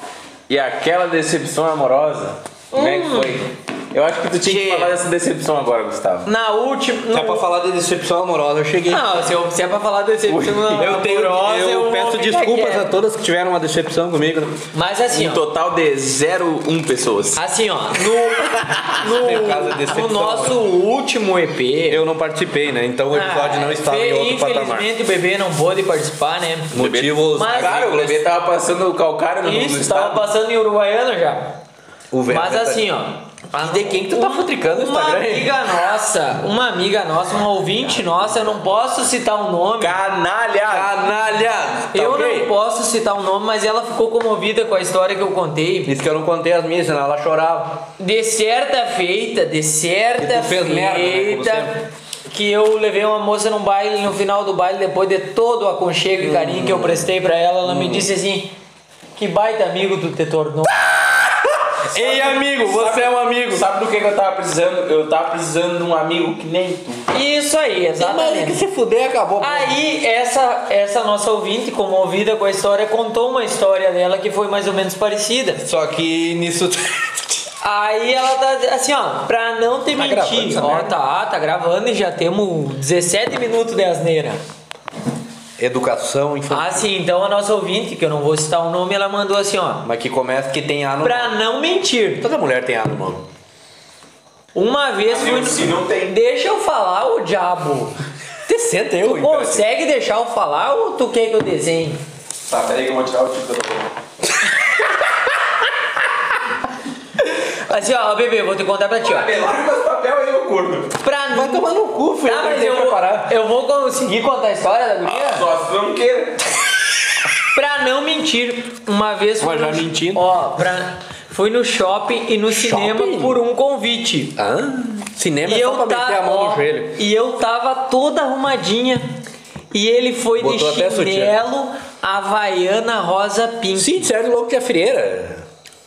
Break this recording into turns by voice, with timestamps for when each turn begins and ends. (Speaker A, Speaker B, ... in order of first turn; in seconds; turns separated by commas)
Speaker A: 0.5-6.3, Speaker B: 2.7-3.4, Speaker B: 4.4-5.0, Speaker B: 6.2-7.5, Speaker C: 7.1-9.1, Speaker B: 8.9-12.9, Speaker A: 10.3-10.9, Speaker C: 10.7-14.6, Speaker B: 14.7-15.4, Speaker A: 15.1-17.4, Speaker B: 17.4-22.0, Speaker C: 19.0-20.6, Speaker C: 21.9-24.9, Speaker B: 23.1-26.7, Speaker C: 26.7-28.2, Speaker A: 26.7-30.3, Speaker B: 27.3-27.8, Speaker B: 29.4-31.5, Speaker C: 32.1-32.9, Speaker B: 32.3-40.0, Speaker C: 33.6-35.5, Speaker A: 39.8-40.9, Speaker C: 40.7-42.5, Speaker B: 41.9-46.0, Speaker C: 45.9-47.8, Speaker B: 48.0-58.5, Speaker C: 50.2-51.8, Speaker C: 56.2-57.1, Speaker C: 57.6-58.1, Speaker B: 59.2-60.7, Speaker C: 61.9-63.6, Speaker A: 61.9-67.1, Speaker B: 67.1-68.6, Speaker C: 68.0-69.7, Speaker B: 69.4-75.6, Speaker C: 75.6-77.2, Speaker B: 77.6-84.4, Speaker C: 79.9-81.0, Speaker C: 85.6-86.9, Speaker B: 86.5-89.8, Speaker C: 89.8-91.4, Speaker B: 91.0-92.2, Speaker C: 92.2-93.2, Speaker B: 94.5-97.9, Speaker A: 95.1-96.1, Speaker C: 98.5-99.6, Speaker B: 99.1-102.0, Speaker A: 102.5-103.9, Speaker B: 107.2-109.3, Speaker A: 109.0-110.9, Speaker B: 111.0-111.6, Speaker C: 111.3-113.3, Speaker B: 112.2-115.5, Speaker A: 115.0-116.5, Speaker B: 117.5-124.3, Speaker C: 119.4-120.2, Speaker C: 122.5-123.4, Speaker C: 124.4-127.0, Speaker B: 125.4-129.0, Speaker B: 129.7-134.1, Speaker C: 130.4-131.3, Speaker C: 133.8-135.4